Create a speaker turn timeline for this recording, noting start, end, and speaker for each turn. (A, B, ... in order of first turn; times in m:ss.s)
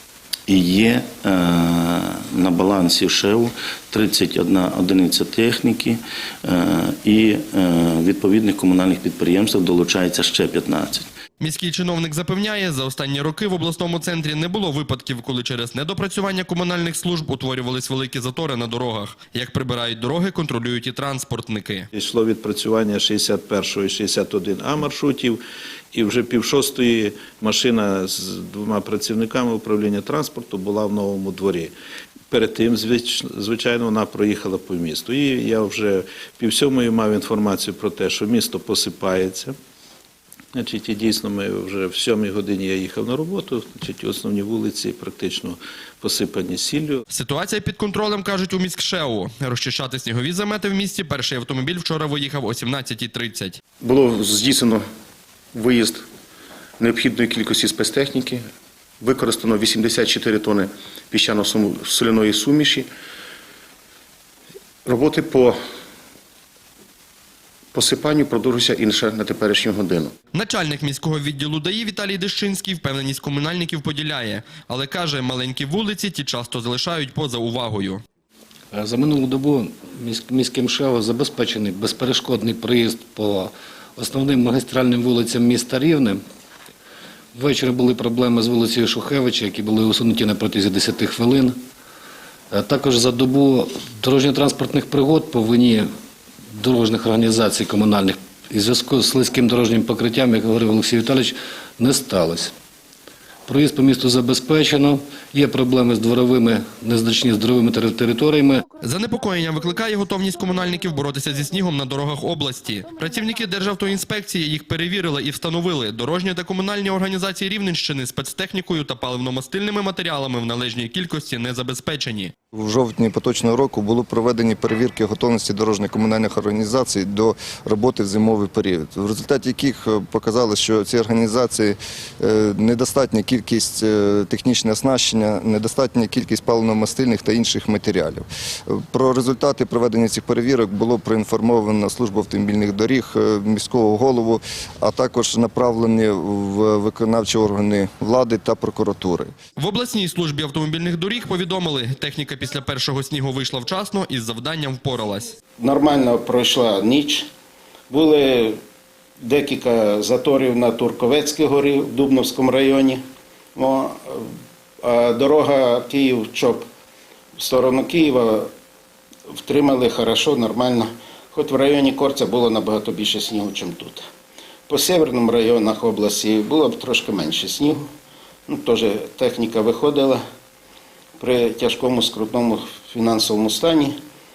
0:00.5-0:11.1 A
0:11.4-0:21.9 B
0:21.9-0:25.4 C
0:25.9-0:31.7 C
0:32.3-0:39.6 C
0:40.6-0:47.0 C
0:47.1-0:53.6 B
0:53.8-0:54.8 D
0:55.5-0:56.0 D
0:56.8-0:58.4 D
0:59.0-1:02.9 D
1:04.8-1:05.6 D
1:07.7-1:10.1 D
1:10.3-1:18.0 B
1:18.7-1:26.2 E
1:27.4-1:31.6 E
1:32.5-1:35.9 E
1:36.6-1:42.5 E
1:43.5-1:48.7 E
1:48.8-2:02.3 B
2:02.5-2:29.3 F
2:29.6-2:35.3 B
2:35.6-2:37.3 G
2:37.9-2:38.6 G
2:39.2-2:43.0 G
2:43.6-2:44.2 G
2:44.8-2:46.6 G
2:47.4-2:48.5 G
2:49.4-2:54.0 G
2:54.7-2:57.8 G
2:58.5-3:00.2 G
3:01.2-3:04.0 G